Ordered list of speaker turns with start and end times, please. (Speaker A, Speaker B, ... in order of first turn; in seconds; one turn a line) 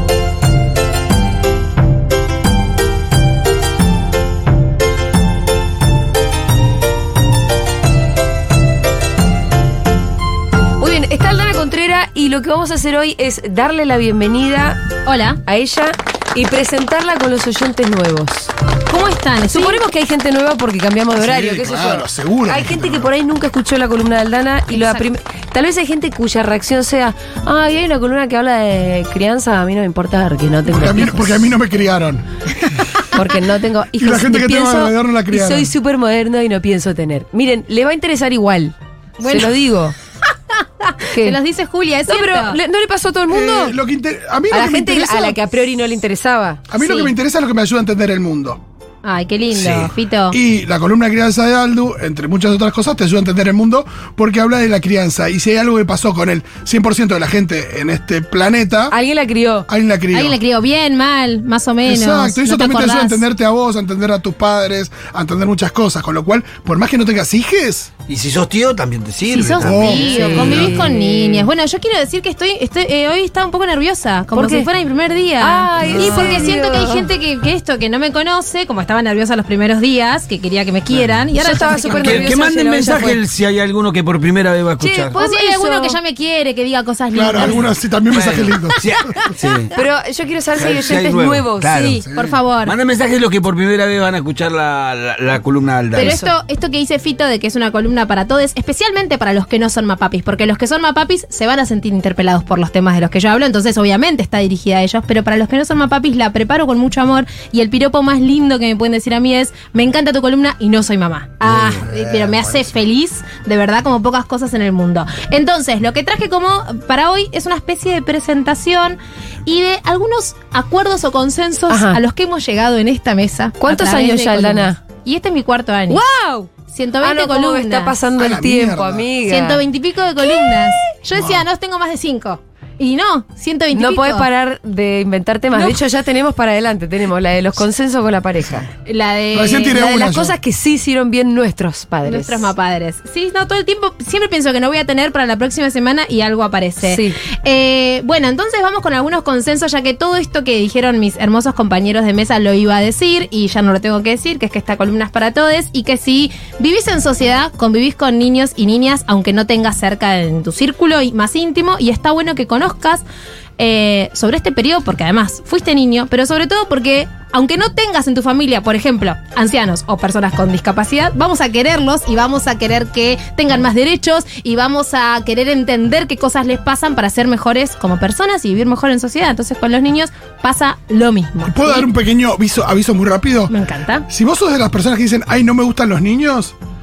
Speaker A: 10.8-14.8
Speaker B: 15.1-15.4
Speaker A: 15.5-18.5
Speaker B: 18.9-19.8
Speaker A: 19.5-31.5
Speaker C: 21.1-23.1
Speaker B: 24.7-25.1
Speaker C: 30.7-32.3
Speaker A: 33.1-40.0
Speaker C: 34.0-35.7
Speaker B: 39.2-39.5
Speaker A: 41.0-41.4
Speaker B: 41.2-42.6
Speaker A: 42.1-43.8
Speaker C: 43.3-45.4
Speaker A: 44.5-46.6
Speaker C: 46.7-48.6
Speaker B: 46.8-47.1
Speaker B: 49.0-50.4
Speaker C: 49.5-59.0
Speaker A: 58.9-59.7
Speaker C: 59.7-60.4
Speaker B: 60.1-63.2
Speaker C: 61.9-67.9
Speaker D: 68.1-70.8
Speaker B: 69.3-83.1
Speaker C: 69.6-70.8
Speaker A: 69.8-71.5
Speaker A: 74.3-74.7
Speaker A: 75.4-77.1
Speaker D: 75.8-76.3
Speaker D: 80.9-81.3
Speaker A: 81.3-83.2
Speaker D: 81.9-85.2
Speaker A: 84.8-86.0
Speaker B: 85.2-87.7
Speaker C: 87.1-88.8
Speaker D: 88.1-89.7
Speaker B: 89.0-89.5
Speaker A: 89.7-92.0
Speaker D: 90.5-96.2
Speaker B: 91.7-92.8
Speaker B: 95.9-126.0
Speaker A: 96.0-96.3
Speaker A: 121.7-122.0
Speaker A: 123.6-124.8
Speaker A: 125.9-126.5
Speaker B: 126.7-128.0
Speaker A: 127.0-129.6
Speaker C: 128.2-129.1
Speaker B: 129.3-134.3
Speaker A: 130.4-130.8
Speaker C: 131.2-131.4
Speaker A: 133.7-138.7
Speaker B: 135.5-135.8
Speaker B: 138.8-139.8
Speaker C: 139.3-140.3
Speaker A: 139.7-142.5
Speaker B: 142.0-163.0
Speaker A: 146.8-147.2
Speaker B: 163.6-181.9
Speaker C: 181.5-183.5
Speaker B: 183.5-184.1
Speaker C: 184.1-186.5